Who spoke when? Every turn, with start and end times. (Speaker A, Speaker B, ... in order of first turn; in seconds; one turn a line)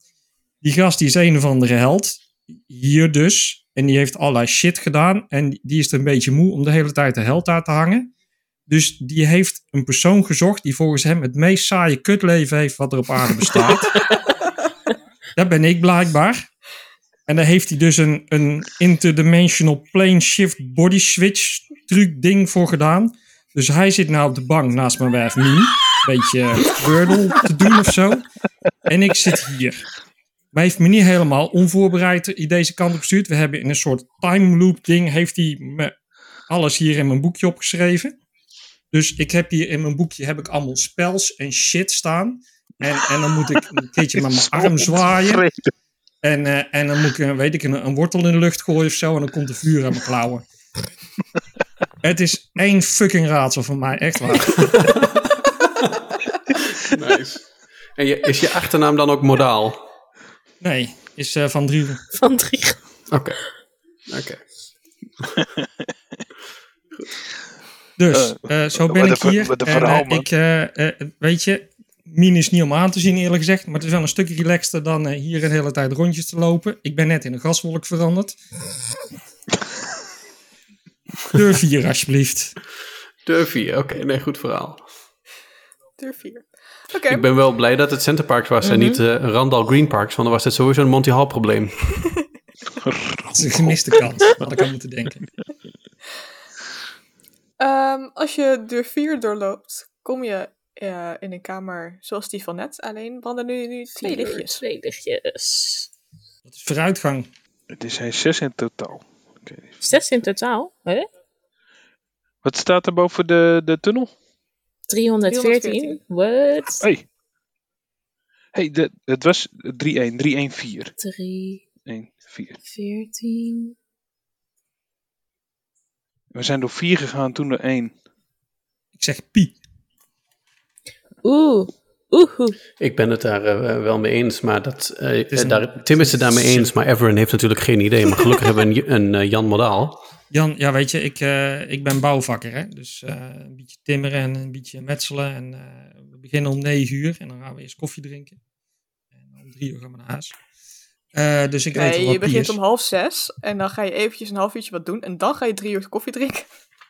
Speaker A: 0.6-8.1
Speaker A: 8.7-14.2
Speaker A: 15.3-16.5
Speaker A: 17.3-28.2
Speaker A: 28.9-29.9
Speaker A: 30.5-35.9
Speaker A: 36.5-38.1
Speaker A: 38.9-45.5
Speaker B: 44.1-45.7
Speaker A: 46.2-50.4
Speaker A: 52.0-55.0
Speaker C: 54.7-55.1
Speaker C: 56.8-59.8
Speaker A: 60.6-62.0
Speaker D: 62.1-62.8
Speaker C: 63.1-63.4
Speaker C: 64.1-64.4
Speaker B: 65.4-65.7
Speaker A: 68.0-78.4
Speaker B: 68.1-70.2
Speaker A: 81.3-82.5
Speaker C: 83.2-84.8
Speaker E: 86.0-87.2
Speaker C: 87.1-91.9
Speaker D: 88.6-89.0
Speaker B: 92.8-94.0
Speaker A: 93.3-95.3
Speaker E: 97.6-104.6
Speaker D: 104.0-105.9
Speaker A: 106.5-107.3
Speaker B: 107.7-109.8
Speaker D: 109.8-111.1
Speaker B: 112.4-114.1
Speaker D: 114.9-116.8
Speaker E: 115.3-116.0
Speaker B: 116.8-117.0
Speaker B: 118.5-120.9
Speaker D: 121.0-121.7
Speaker B: 121.8-122.6
Speaker D: 122.6-123.7
Speaker B: 126.3-128.0
Speaker A: 129.0-129.6
Speaker D: 131.2-132.6
Speaker C: 132.8-140.0
Speaker A: 135.3-136.7
Speaker A: 140.3-148.4
Speaker A: 149.3-150.3
Speaker A: 151.1-152.6
Speaker E: 151.7-156.5